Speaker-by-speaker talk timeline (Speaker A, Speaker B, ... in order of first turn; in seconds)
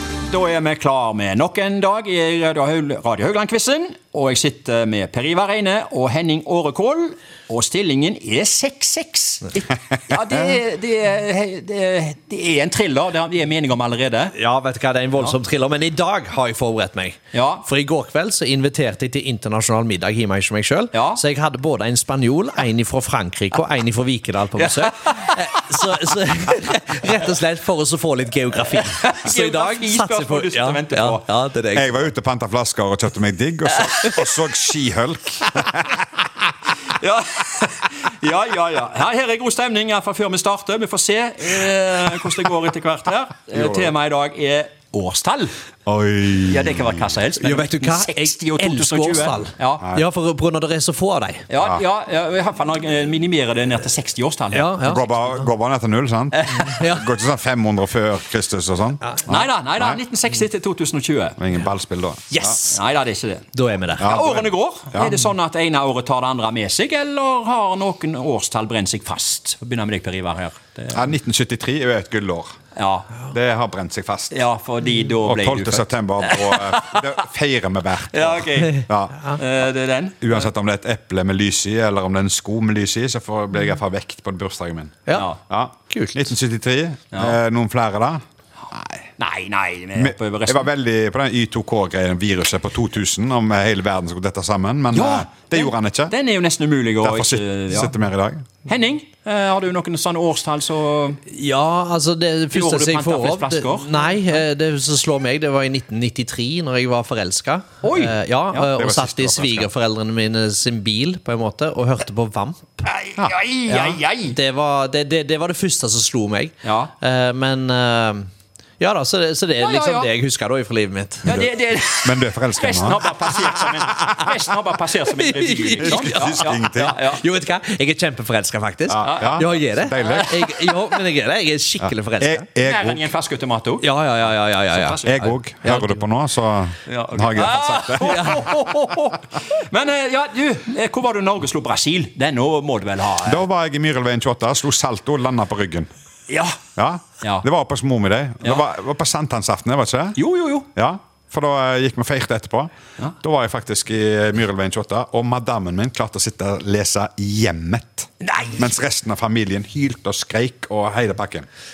Speaker A: 0.3-14.3, 17.3-17.6, 20.9-21.2, 24.6-25.4, 28.7-31.3, 33.7-34.4, 36.9-45.5, 46.4-49.9, 51.5-54.7, 56.3-56.8, 59.2-61.4, 62.7-71.0, 72.8-73.2, 74.3-77.0, 78.1-80.5, 85.1-85.4, 87.1-87.4, 89.2-90.7, 94.9-98.0, 98.7-101.2, 102.5-104.4, 107.8-108.7, 112.9-114.3, 116.6-116.9, 119.6-120.1, 121.2-127.2, 129.0-130.7, 132.6-133.9, 134.7-135.3, 136.9-143.4, 146.3-146.6, 150.2-150.7, 158.2-158.7
Speaker B: 14.3-32.1, 47.4-51.5, 54.5-55.5, 56.6-57.0, 62.3-62.8, 63.5-64.2, 85.9-86.3, 101.3-112.8, 113.7-118.3, 118.8-121.4, 125.1-132.5, 133.8-136.0, 138.0-138.5
Speaker C: 31.7-36.0, 43.5-43.9, 45.9-47.1, 49.8-50.0, 54.8-60.0, 61.4-62.6, 64.0-65.2, 70.9-72.5, 73.3-74.4, 75.2-79.3, 80.2-89.1, 89.9-96.1, 97.0-98.5, 108.7-109.7, 121.2-123.0, 125.8-127.0, 128.9-130.3, 131.8-133.0, 135.0-138.5, 143.2-145.9, 146.8-150.2, 150.8-161.5